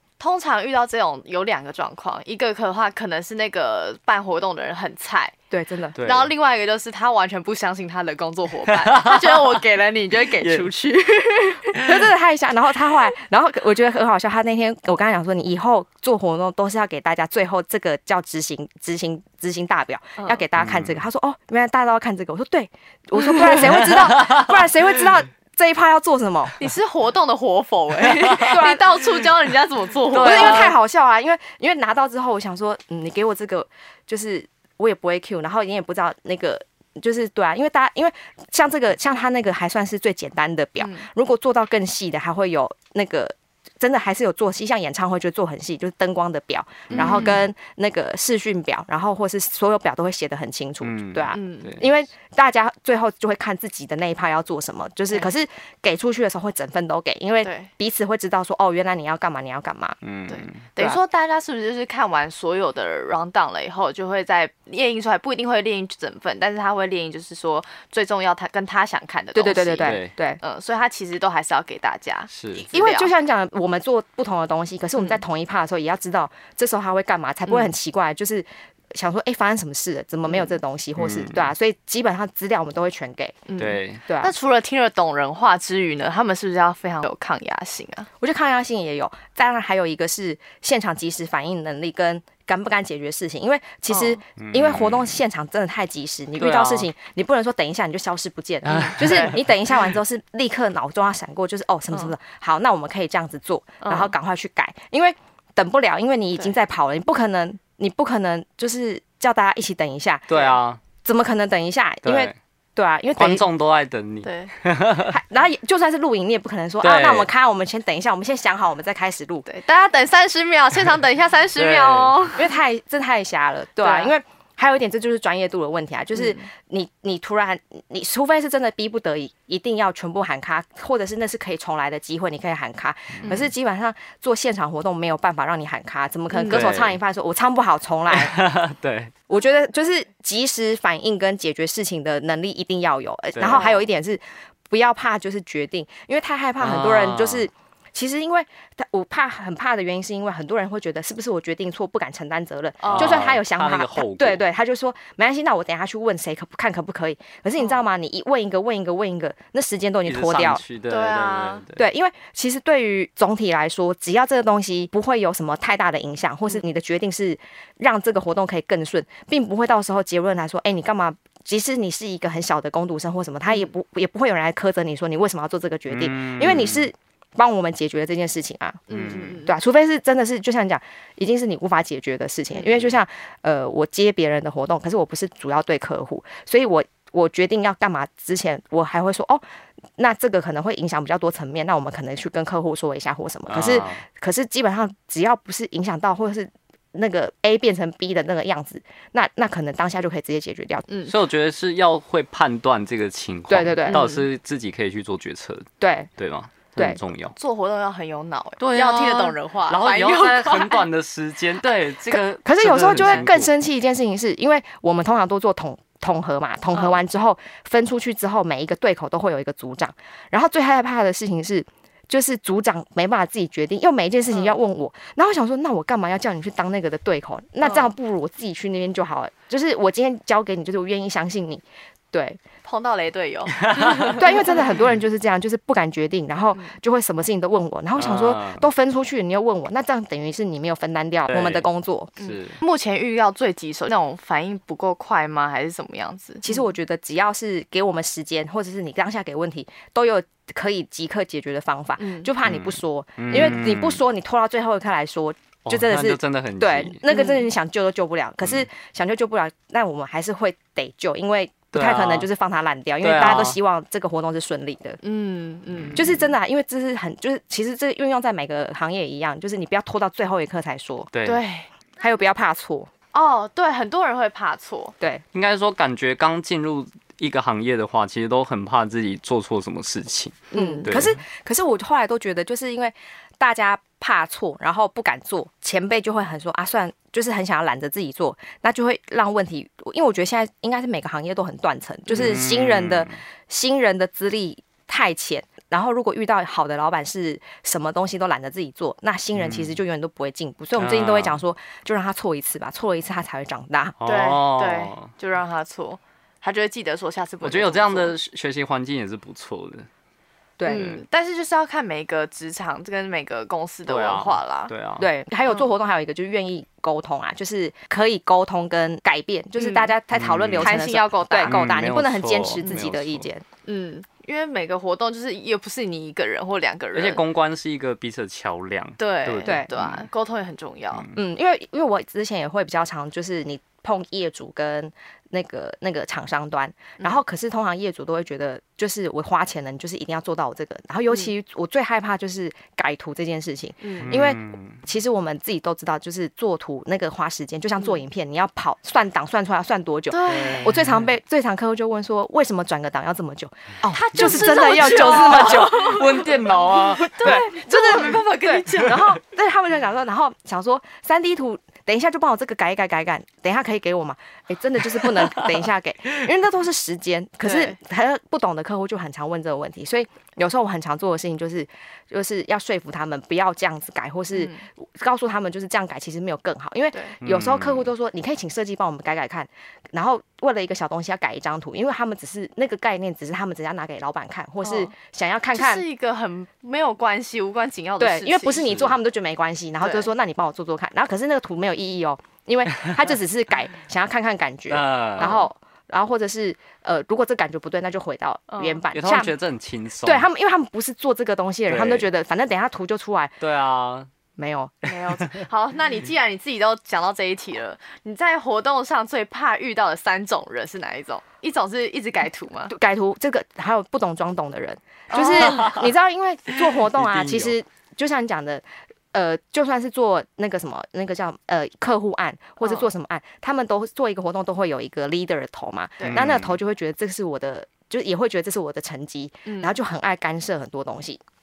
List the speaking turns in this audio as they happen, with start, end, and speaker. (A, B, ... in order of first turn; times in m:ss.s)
0:00.2-0:05.3 A
0:05.5-0:06.0 B
0:06.0-0:06.3 C
0:06.0-0:11.8 A
0:08.7-0:09.6 C
0:10.4-0:10.7 C
0:11.8-0:26.6 B
0:20.6-0:21.0 C
0:23.7-0:24.7 C
0:26.6-0:30.7 A
0:28.0-0:28.6 C
0:28.4-0:28.9 B
0:30.1-0:30.8 C
0:30.1-1:00.0 B
0:40.8-0:41.1 A
0:46.9-0:47.4 A
0:47.0-0:47.4 C
0:50.8-0:51.8 C
0:51.3-0:51.8 A
0:57.4-0:57.7 A
1:00.0-1:00.6 C
1:00.3-1:13.1 A
1:09.3-1:10.4 B
1:09.8-1:10.1 C
1:12.3-1:12.6 C
1:12.7-1:23.5 B
1:15.0-1:15.2 A
1:20.3-1:20.5 A
1:21.0-1:21.5 C
1:23.5-1:28.1 A
1:23.6-1:24.0 C
1:24.1-1:24.3 B
1:28.2-1:50.3 B
1:33.9-1:34.2 A
1:34.4-1:35.2 C
1:36.4-1:36.9 C
1:38.7-1:39.4 C
1:38.7-1:39.4 A
1:43.8-1:44.1 A
1:50.3-1:50.8 C
1:50.3-1:50.6 A
1:51.0-1:53.4 B
1:52.0-1:52.4 C
1:53.2-1:55.2 C
1:54.2-1:54.5 A
1:55.1-1:59.5 B
1:56.8-1:57.3 C
1:59.5-2:02.5 A
2:01.6-2:02.2 C
2:02.4-2:18.4 B
2:03.8-2:04.1 A
2:06.1-2:06.5 A
2:13.2-2:13.4 C
2:13.2-2:13.5 A
2:16.3-2:16.6 A
2:16.5-2:17.0 C
2:18.1-2:19.1 C
2:19.3-2:40.6 B
2:23.4-2:23.7 C
2:23.4-2:23.9 A
2:26.6-2:27.5 C
2:32.8-2:33.2 A
2:32.9-2:34.4 C
2:40.0-2:41.8 C
2:40.9-2:41.6 A
2:41.8-3:09.4 B
2:55.9-2:56.9 C
2:58.9-2:59.5 A
2:58.9-2:59.4 C
3:10.0-3:20.9 B
3:13.5-3:14.0 C
3:20.9-3:21.2 A
3:21.1-3:27.4 C
3:23.5-3:24.0 B
3:23.9-3:24.2 A
3:25.8-3:26.1 B
3:27.4-3:30.9 A
3:28.6-3:33.5 C
3:32.1-3:52.4 B
3:33.0-3:33.2 A
3:36.7-3:37.0 A
3:44.3-3:44.6 A
3:47.6-3:47.9 A
3:52.6-3:54.8 A
3:53.6-3:54.2 C
3:54.1-4:02.1 B
3:58.0-3:58.6 C
4:01.3-4:01.7 C
4:02.2-4:02.6 C
4:02.2-4:06.6 A
4:06.4-4:25.0 B
4:12.0-4:12.3 A
4:12.4-4:14.0 C
4:15.7-4:17.0 C
4:17.1-4:17.5 A
4:21.7-4:22.3 C
4:23.0-4:23.6 C
4:25.0-4:26.2 A
4:25.7-4:26.2 C
4:26.0-4:31.1 B
4:31.1-4:31.4 C
4:31.2-4:31.7 A
4:32.0-4:32.9 B
4:33.1-4:34.9 A
4:35.3-4:41.2 C
4:40.5-4:41.0 A
4:40.5-5:04.0 B
4:52.1-4:53.2 C
4:59.4-4:59.8 C
5:00.8-5:01.4 C
5:04.0-5:05.1 C
5:04.0-5:08.1 A
5:07.4-5:09.9 C
5:10.6-5:11.0 B
5:10.7-5:14.7 A
5:10.8-5:11.0 C
5:13.9-5:15.1 C
5:15.0-5:23.4 B
5:19.6-5:19.9 A
5:20.1-5:20.9 C
5:20.6-5:21.6 A
5:21.4-5:23.3 C
5:23.7-5:27.2 A
5:26.9-5:30.1 C
5:29.0-5:31.1 A
5:29.4-5:29.7 B
5:31.1-5:56.1 B
5:43.8-5:44.1 A
5:44.0-5:44.8 C
5:50.1-5:50.8 A
5:50.3-5:51.1 C
5:54.0-5:59.2 A
5:54.1-5:57.4 C
5:57.2-6:25.8 B
6:05.0-6:05.5 C
6:07.4-6:07.8 A
6:14.3-6:14.6 A
6:17.2-6:17.9 C
6:24.6-6:24.9 A
6:25.5-6:28.7 A
6:28.0-6:39.3 B
6:28.6-6:28.9 C
6:29.8-6:30.1 A
6:34.7-6:35.4 C
6:35.2-6:35.5 A
6:38.5-6:38.8 A
6:38.9-6:40.3 C
6:40.0-6:43.4 B
6:41.7-6:42.1 C
6:43.4-6:44.1 C
6:44.4-6:44.8 B
6:44.9-6:52.7 A
6:52.7-7:11.2 B
6:55.1-6:55.7 A
6:55.3-6:55.9 C
6:56.6-6:57.6 C
7:02.6-7:02.9 A
7:06.0-7:06.3 A
7:06.0-7:06.6 C
7:09.5-7:09.8 A